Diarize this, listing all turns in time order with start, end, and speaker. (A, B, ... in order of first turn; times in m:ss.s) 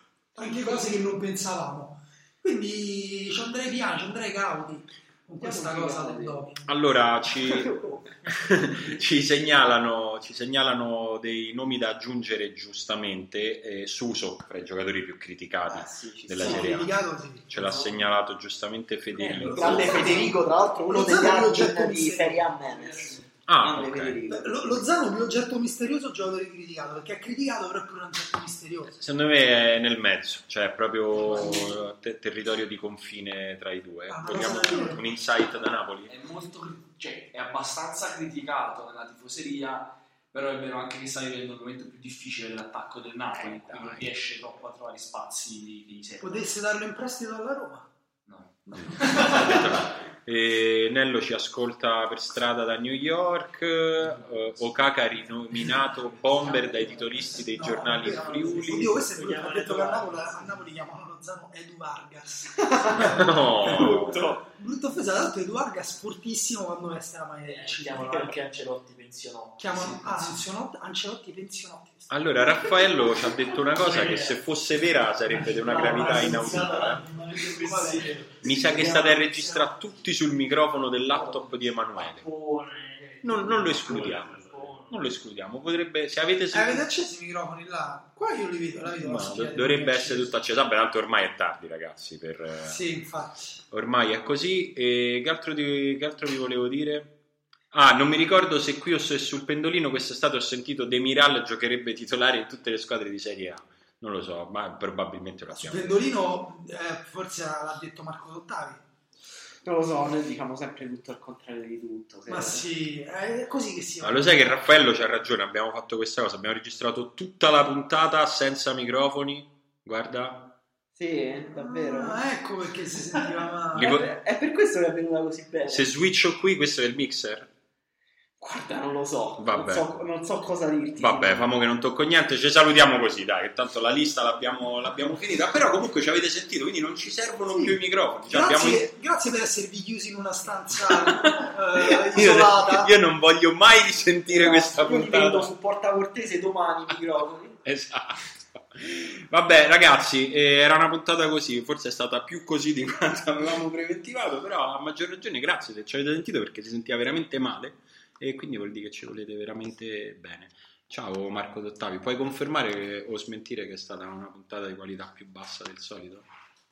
0:00.4-0:06.7 A
0:00.4-0:00.8 B
0:05.4-0:06.4 B
0:06.7-0:07.8 C
0:07.4-0:08.6 B
0:08.3-0:17.0 C
0:15.7-0:16.8 B
0:16.4-0:17.5 A
0:17.5-0:20.2 C
0:19.2-0:24.5 B
0:19.4-0:22.5 A
0:22.7-0:23.3 D
0:23.5-0:24.2 C
0:24.3-0:28.9 A
0:28.9-0:36.1 C
0:34.1-0:35.0 A
0:36.1-0:46.5 D
0:43.3-0:44.1 C
0:46.2-0:47.9 A
0:48.3-0:48.6 D
0:48.7-0:49.8 A
0:48.8-0:59.0 C
0:57.5-1:08.3 A
0:58.5-1:00.6 E
1:02.6-1:03.1 B
1:03.0-1:04.4 C
1:03.6-1:04.4 B
1:07.4-1:10.4 E
1:09.6-1:12.1 A
1:12.1-1:17.1 C
1:13.7-1:14.4 E
1:15.3-1:19.7 E
1:15.4-1:16.7 D
1:16.0-1:16.3 A
1:17.4-1:18.5 A
1:17.6-1:18.3 D
1:18.2-1:22.3 C
1:21.1-1:25.1 E
1:23.2-1:26.9 C
1:23.9-1:24.8 D
1:26.5-1:30.3 A
1:28.9-1:32.8 C
1:32.6-1:33.6 A
1:33.7-1:37.2 C
1:37.7-1:46.0 C
1:45.6-1:48.8 A
1:49.6-1:52.6 B
1:52.3-1:54.6 A
1:54.0-2:00.6 C
2:01.0-2:02.2 B
2:01.6-2:04.0 A
2:03.7-2:04.1 C
2:03.7-2:05.9 B
2:05.7-2:07.5 C
2:08.4-2:11.5 B
2:09.4-2:09.9 C
2:11.0-2:18.9 C
2:17.5-2:22.9 A
2:22.1-2:25.5 C
2:24.3-2:27.6 B
2:27.6-2:46.3 C